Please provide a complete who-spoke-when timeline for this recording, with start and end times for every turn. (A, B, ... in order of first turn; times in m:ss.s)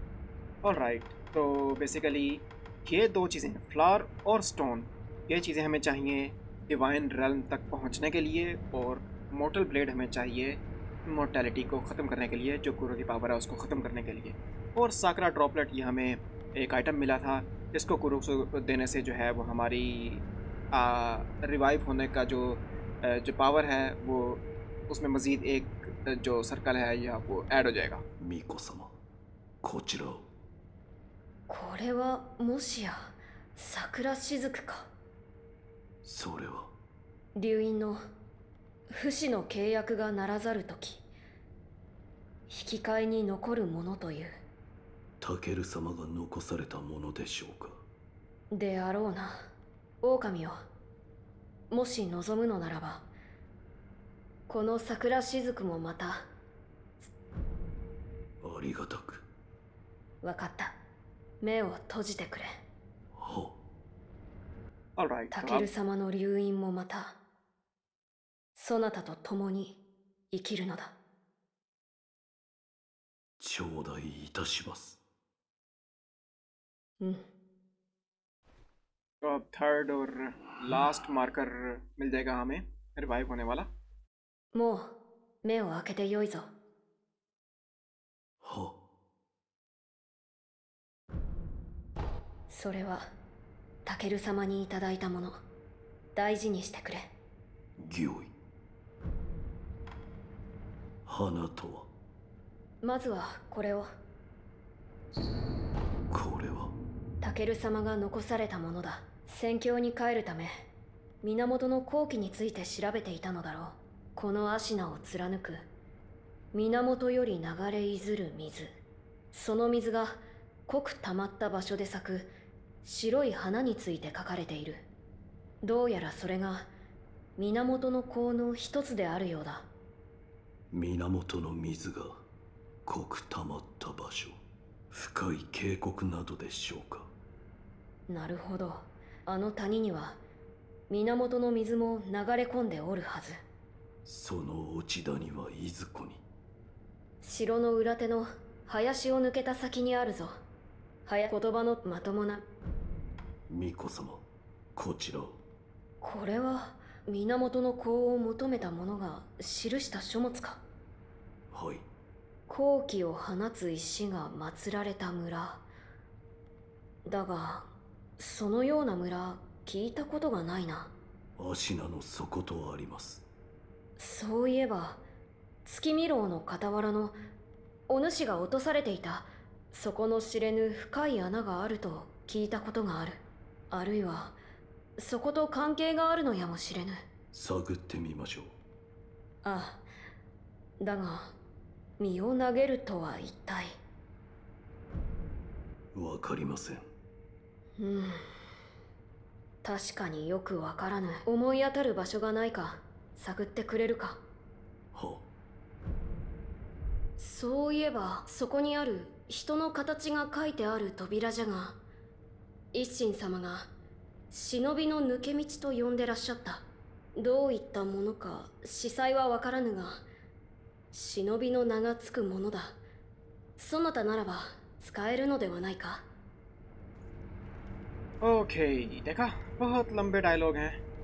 0:00.6-0:28.0 A
0:28.2-0:29.0 B
0:29.6-0:30.3 B
0:31.5-0:34.9 C
0:36.0-0:36.7 B
0:37.4-0:38.0 C
0:38.9-0:41.0 C
0:42.5-0:44.4 C
0:45.2-0:47.8 B
0:48.5-0:49.5 C
0:50.0-0:50.6 C
0:51.7-0:53.1 C
0:54.5-0:56.3 C
0:58.4-0:59.3 B
1:00.2-1:00.8 C
1:01.4-1:02.5 C
1:03.2-1:03.6 B
1:05.0-1:05.7 A
1:05.3-1:07.2 C
1:08.6-1:09.8 C
1:10.3-1:10.9 C
1:13.4-1:15.0 B
1:17.0-1:17.2 C
1:19.2-1:23.7 A
1:24.5-1:26.5 C
1:28.4-1:28.8 B
1:32.5-1:33.1 C
1:33.9-1:35.4 C
1:36.2-1:37.1 C
1:37.8-1:38.3 B
1:41.1-1:41.9 B
1:42.8-1:43.9 C
1:46.1-1:46.8 B
1:47.2-1:50.5 C
1:51.2-1:55.6 C
1:56.5-1:58.7 C
1:59.3-2:02.3 C
2:02.8-2:04.8 C
2:05.6-2:06.7 C
2:07.4-2:09.7 C
2:10.7-2:12.2 B
2:12.8-2:14.4 B
2:14.9-2:17.1 B
2:18.1-2:20.2 C
2:20.9-2:23.4 C
2:24.0-2:26.2 B
2:27.2-2:30.4 C
2:31.1-2:32.4 C
2:33.5-2:34.2 B
2:34.8-2:35.4 B
2:36.0-2:40.6 C
2:41.5-2:41.9 B
2:42.5-2:45.6 C
2:47.1-2:50.9 C
2:51.4-2:53.2 B
2:54.0-2:55.0 C
2:55.6-2:57.2 C
2:57.9-3:04.4 C
3:05.0-3:07.0 C
3:07.3-3:08.6 B
3:09.4-3:09.8 C
3:10.8-3:11.4 C
3:12.0-3:13.8 C
3:15.9-3:16.9 B
3:17.8-3:18.2 C
3:19.6-3:24.2 C
3:24.9-3:25.3 B
3:27.2-3:31.8 C
3:32.7-3:33.7 C
3:34.3-3:40.0 C
3:40.9-3:42.8 C
3:43.6-3:46.0 C
3:48.2-3:50.8 A